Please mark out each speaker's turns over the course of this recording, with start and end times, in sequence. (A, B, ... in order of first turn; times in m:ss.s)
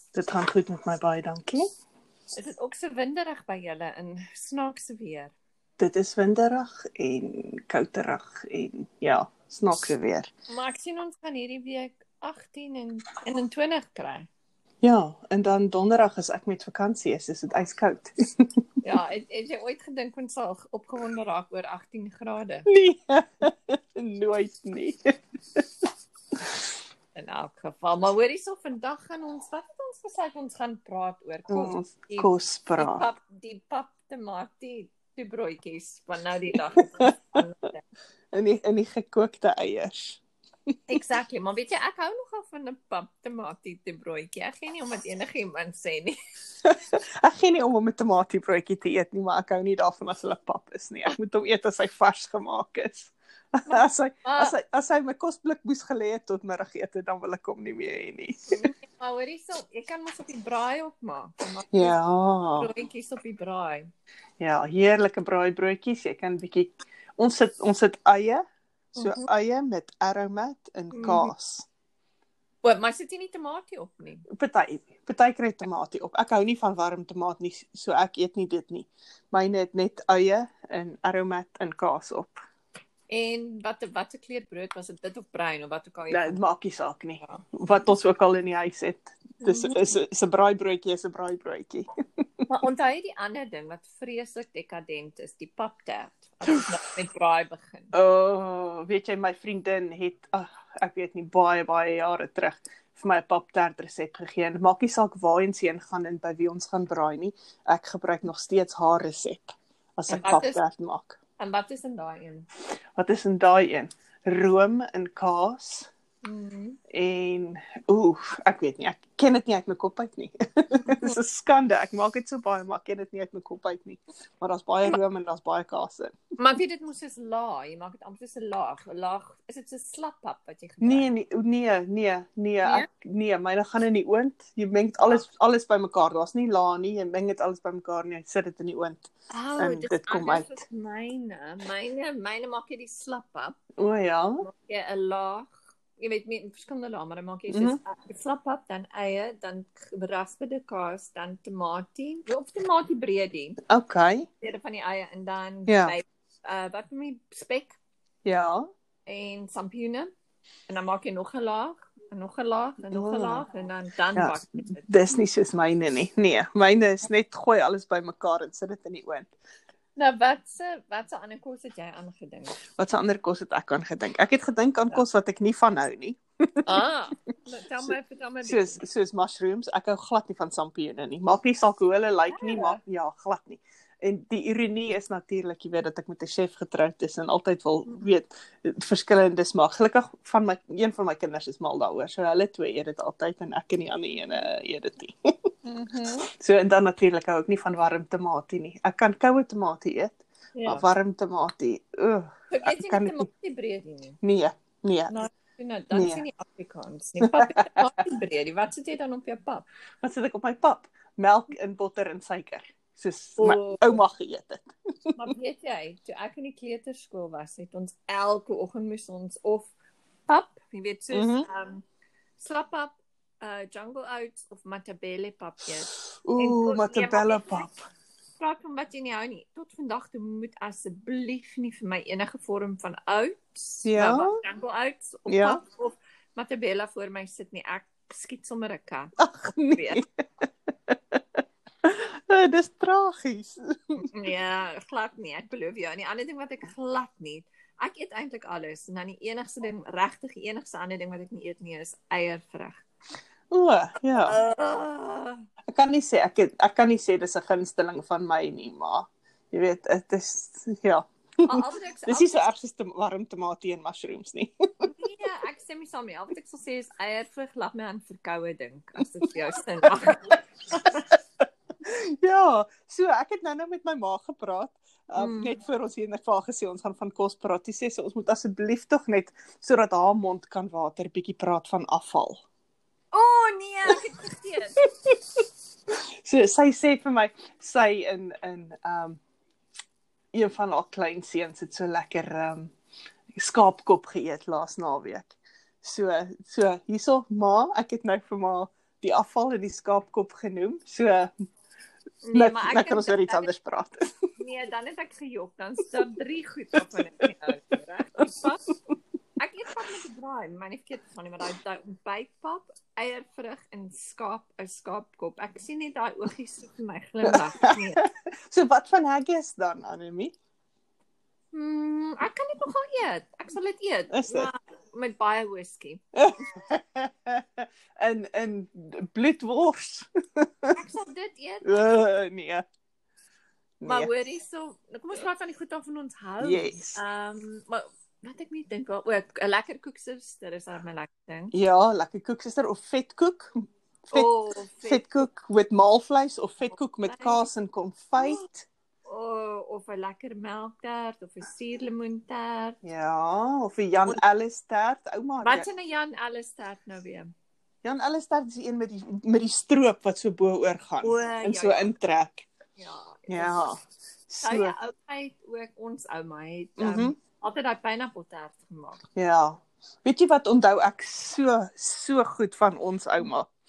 0:00.1-0:01.7 A
0:02.3-0:05.3 B
0:05.8-0:10.3 A
0:10.5-0:14.3 B
0:14.8-0:18.5 A
0:18.8-0:22.7 B
0:22.7-0:25.6 A
0:27.2-0:37.8 B
0:31.5-0:33.1 A
0:37.0-0:37.4 A
0:38.3-0:40.2 A
0:40.9-0:46.2 B
0:46.6-0:58.7 A
0:53.7-0:54.5 B
0:58.5-1:02.0 B
1:01.7-1:02.7 A
1:02.6-1:03.9 B
1:04.4-1:08.4 A
1:09.0-1:09.3 B
1:09.0-1:11.7 A
1:10.9-1:11.3 B
1:12.6-1:14.2 B
1:14.3-1:22.4 A
1:23.1-1:26.4 B
1:26.1-1:31.9 A
1:29.4-1:30.0 B
1:32.5-1:37.9 B
1:37.9-1:51.2 A
1:50.1-1:50.6 B
1:51.4-1:52.5 B
1:53.0-1:55.9 A
1:56.2-1:56.8 B
1:56.9-2:06.2 A
2:00.8-2:01.2 B
2:06.4-2:11.1 B
2:10.8-2:20.5 A
2:19.3-2:23.6 B
2:23.8-2:24.4 A
2:24.4-2:33.6 B
2:27.5-2:27.8 A
2:33.7-2:34.3 A
2:34.4-2:37.8 B
2:35.7-2:36.0 A
2:38.2-2:38.6 A
2:39.1-2:40.1 B
2:40.7-2:45.2 B
2:42.9-2:43.4 A
2:44.2-2:49.3 A
2:50.0-2:52.6 B
2:52.8-2:56.8 A
2:56.6-2:58.8 B
2:58.4-3:15.2 A
3:02.3-3:02.8 B
3:15.6-3:16.3 B
3:16.3-3:23.3 A
3:20.6-3:20.8 B
3:22.5-3:24.2 B
3:24.2-3:25.1 A
3:25.1-3:29.6 B
3:25.9-3:26.2 A
3:27.2-3:27.8 A
3:30.0-3:35.2 A
3:33.4-3:34.0 B
3:35.2-3:39.7 B
3:40.3-3:41.8 B
3:41.1-3:41.5 A
3:42.4-3:47.7 B
3:46.2-3:47.8 A
3:48.4-3:59.1 B
3:53.8-3:54.4 A
3:55.3-3:55.6 A
3:59.2-4:00.1 A
3:59.7-4:00.0 B
4:00.9-4:01.2 A
4:01.8-4:04.1 A
4:04.0-4:12.8 B
4:13.5-4:14.4 A
4:14.3-4:15.4 B
4:15.7-4:24.9 A
4:21.4-4:22.4 B
4:24.8-4:31.0 B
4:31.8-4:42.4 A
4:35.2-4:35.6 B
4:43.1-4:44.8 B
4:44.8-4:45.1 A
4:46.2-4:49.2 A
4:50.3-4:52.7 A
4:53.3-5:01.3 A
5:02.2-5:03.5 B
5:02.3-5:04.0 A
5:04.4-5:08.6 B
5:09.4-5:18.1 B
5:17.2-5:20.3 A
5:21.5-5:26.0 B
5:24.1-5:24.5 A
5:26.2-5:30.8 A
5:30.8-5:31.8 B
5:31.6-5:32.6 A
5:33.8-5:34.1 A
5:33.8-5:41.5 B
5:36.4-5:37.0 A
5:41.5-5:44.3 A
5:44.1-5:45.0 B
5:44.8-5:48.7 A
5:47.1-5:47.4 B
5:48.2-5:48.4 B
5:49.1-5:52.8 B
5:52.8-5:55.7 A
5:55.4-5:57.3 B
5:57.8-6:02.4 A
6:01.0-6:01.9 B
6:02.8-6:03.6 B
6:03.3-6:04.8 A
6:04.4-6:09.0 B
6:06.8-6:07.2 A
6:09.2-6:13.5 A